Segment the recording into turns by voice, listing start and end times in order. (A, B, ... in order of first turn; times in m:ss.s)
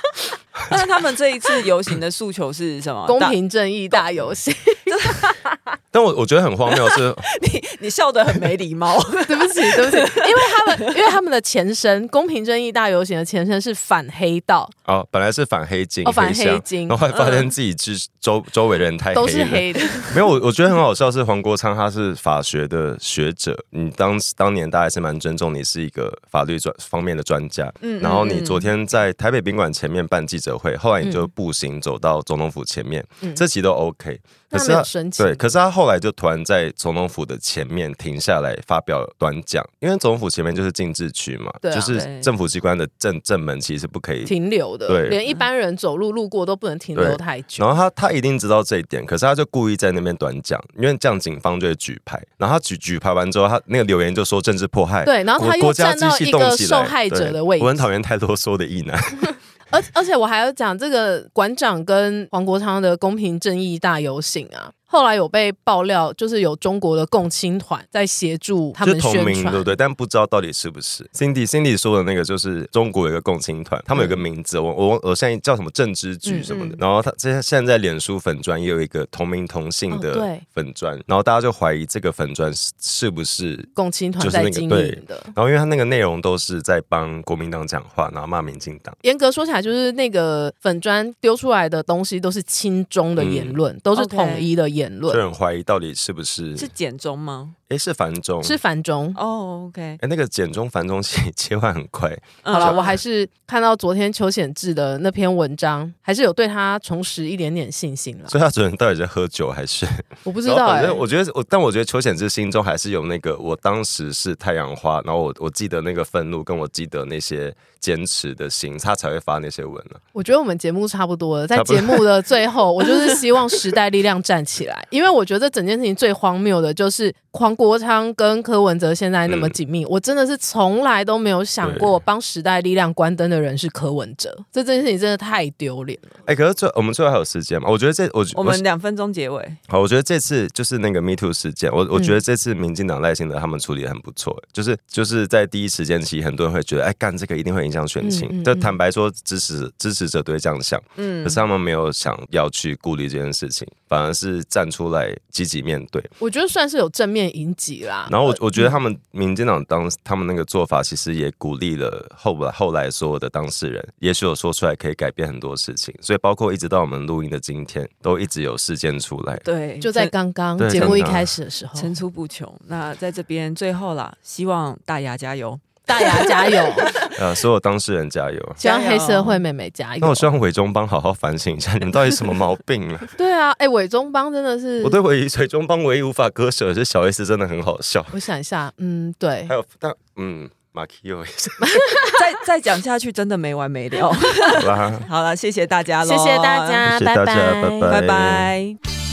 0:00.7-0:03.3 A
0:03.0-0:05.6 B
0:04.9-0:05.3 A
0:05.9-0:07.3 C
0:06.7-0:10.9 A
0:09.3-0:14.7 B
0:14.9-0:44.3 C
0:16.0-0:17.0 B
0:17.1-0:17.5 A
0:19.1-0:20.0 B
0:19.8-0:20.2 A
0:27.8-0:28.7 A
0:31.0-0:31.3 B
0:34.5-0:35.5 B
0:41.6-0:42.0 B
0:41.9-0:42.3 A
0:44.2-0:47.7 B
0:44.9-0:45.2 C
0:46.9-0:59.3 C
0:55.0-0:57.9 B
0:59.7-1:09.7 B
1:08.8-1:29.0 C
1:16.5-1:16.8 A
1:19.9-1:20.4 B
1:23.7-1:25.3 B
1:29.0-1:35.2 B
1:33.2-1:33.6 C
1:33.9-1:34.5 A
1:35.1-1:36.7 C
1:36.6-1:37.5 A
1:37.7-1:38.6 C
1:38.4-1:39.2 B
1:39.1-1:40.0 A
1:40.0-1:42.9 C
1:42.4-1:43.0 A
1:42.5-1:48.4 B
1:48.3-2:00.0 C
1:50.2-1:51.0 B
2:00.1-2:16.2 B
2:01.5-2:02.1 C
2:09.2-2:09.6 C
2:11.6-2:12.0 C
2:16.2-2:18.6 C
2:18.3-2:19.6 A
2:19.7-2:36.1 C
2:28.0-2:28.8 B
2:31.0-2:31.4 A
2:36.2-2:38.6 B
2:38.1-2:49.4 C
2:49.4-2:50.1 A
2:49.8-2:51.9 B
2:50.6-2:51.3 C
2:50.7-2:51.1 A
2:51.7-2:57.2 A
2:55.9-2:56.9 B
2:57.1-2:58.6 C
2:58.6-3:00.3 B
2:58.6-2:59.4 A
3:00.0-3:03.1 C
3:03.2-3:05.0 B
3:04.8-3:08.2 C
3:08.1-3:09.5 B
3:09.5-3:11.8 C
3:11.7-3:12.2 B
3:12.2-3:16.9 A
3:14.5-3:15.1 C
3:16.0-3:18.0 B
3:16.8-3:18.5 C
3:17.9-3:18.8 A